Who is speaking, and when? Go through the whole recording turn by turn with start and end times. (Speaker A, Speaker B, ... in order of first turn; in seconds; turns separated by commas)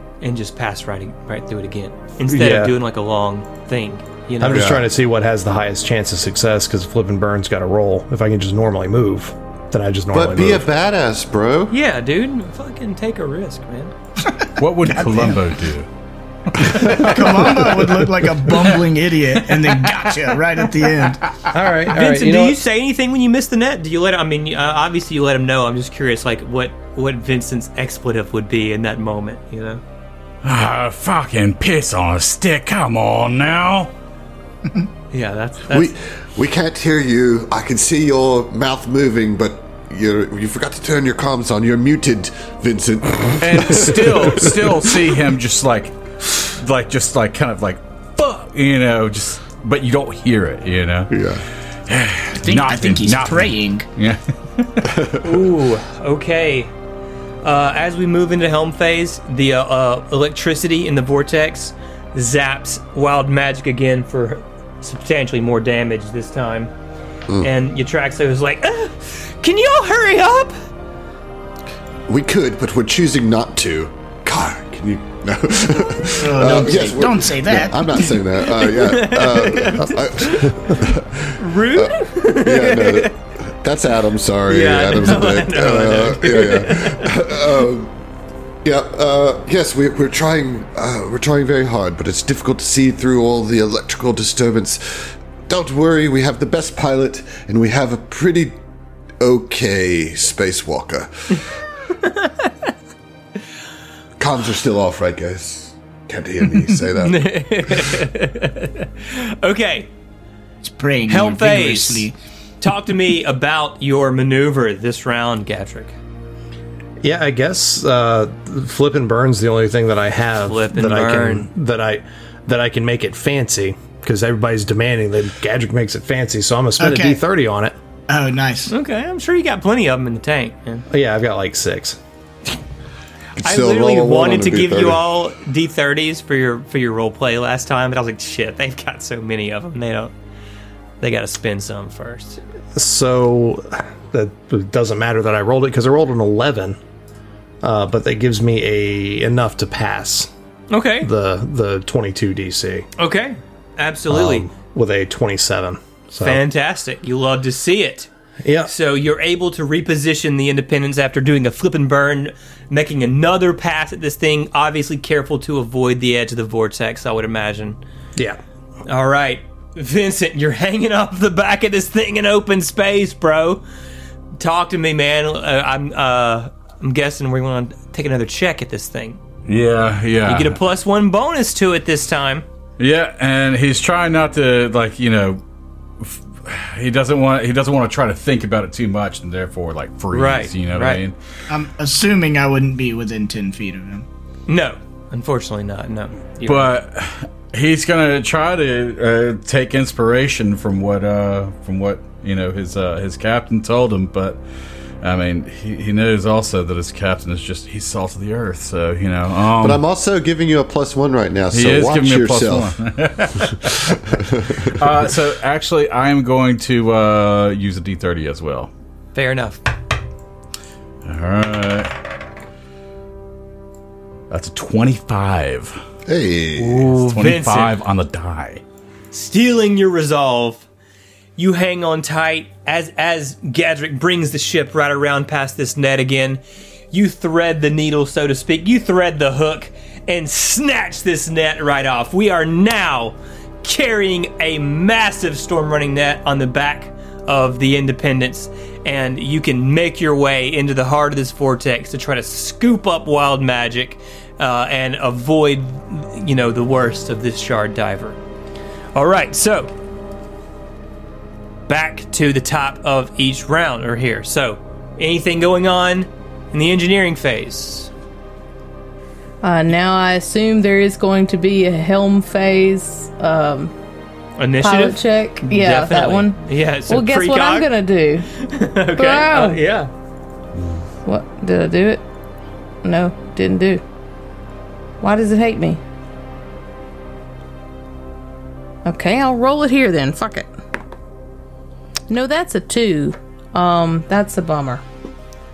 Speaker A: 0.2-4.8, Speaker B: 2.3-2.7, Speaker B: 4.4-10.7, Speaker C: 4.5-4.8, Speaker C: 10.1-11.8, Speaker A: 11.7-13.9, Speaker D: 14.2-15.4, Speaker E: 14.6-15.9, Speaker E: 16.5-17.8, Speaker D: 16.7-21.2, Speaker E: 19.6-20.0, Speaker B: 21.5-22.6, Speaker A: 21.9-29.8, Speaker E: 30.4-33.9, Speaker A: 35.1-35.9, Speaker C: 35.7-44.9, Speaker E: 43.4-51.1, Speaker C: 51.1-51.4, Speaker E: 51.9-55.0, Speaker D: 52.4-53.9, Speaker A: 55.2-56.7, Speaker A: 57.4-66.7, Speaker A: 67.4-70.5, Speaker C: 72.1-87.9, Speaker D: 76.1-77.9, Speaker A: 78.4-83.1, Speaker A: 84.5-87.2, Speaker C: 88.6-98.6, Speaker C: 99.2-101.4, Speaker A: 102.0-102.5, Speaker C: 104.2-107.8, Speaker A: 107.0-109.9, Speaker D: 110.6-112.2, Speaker A: 111.1-112.1, Speaker A: 112.6-115.9, Speaker B: 117.0-127.8, Speaker A: 120.4-121.5, Speaker D: 126.8-127.2, Speaker D: 128.1-128.7, Speaker A: 128.7-130.8, Speaker B: 130.9-132.0, Speaker C: 133.4-135.0, Speaker A: 133.4-140.1, Speaker A: 141.0-142.4, Speaker B: 142.7-146.8, Speaker B: 147.6-150.3, Speaker A: 150.7-151.1, Speaker B: 151.0-152.9, Speaker A: 153.0-154.4, Speaker B: 154.1-156.4, Speaker A: 156.2-158.1, Speaker B: 158.4-158.7, Speaker A: 158.6-167.8, Speaker A: 168.9-173.6, Speaker A: 174.4-179.2, Speaker E: 179.4-180.6, Speaker A: 180.2-182.4, Speaker E: 182.8-185.4, Speaker E: 186.0-191.2, Speaker A: 190.1-191.0, Speaker D: 191.5-194.1, Speaker A: 194.5-196.7, Speaker E: 196.4-204.4, Speaker E: 205.0-209.8, Speaker C: 209.6-212.7, Speaker E: 211.5-214.0, Speaker C: 213.9-214.7, Speaker E: 214.6-218.7, Speaker A: 219.1-219.6, Speaker E: 221.0-221.9, Speaker E: 224.3-225.8, Speaker C: 226.1-226.9, Speaker A: 226.6-227.8, Speaker E: 226.9-228.6, Speaker A: 229.1-230.7, Speaker A: 231.4-236.4, Speaker A: 236.9-258.2, Speaker A: 258.9-259.7, Speaker A: 261.7-267.9, Speaker F: 269.4-273.7, Speaker A: 274.4-277.7, Speaker F: 274.6-278.3, Speaker A: 278.4-279.9, Speaker F: 278.9-279.6, Speaker F: 281.1-282.0, Speaker F: 282.8-283.8, Speaker F: 285.0-285.8, Speaker F: 288.8-290.5, Speaker F: 292.1-294.8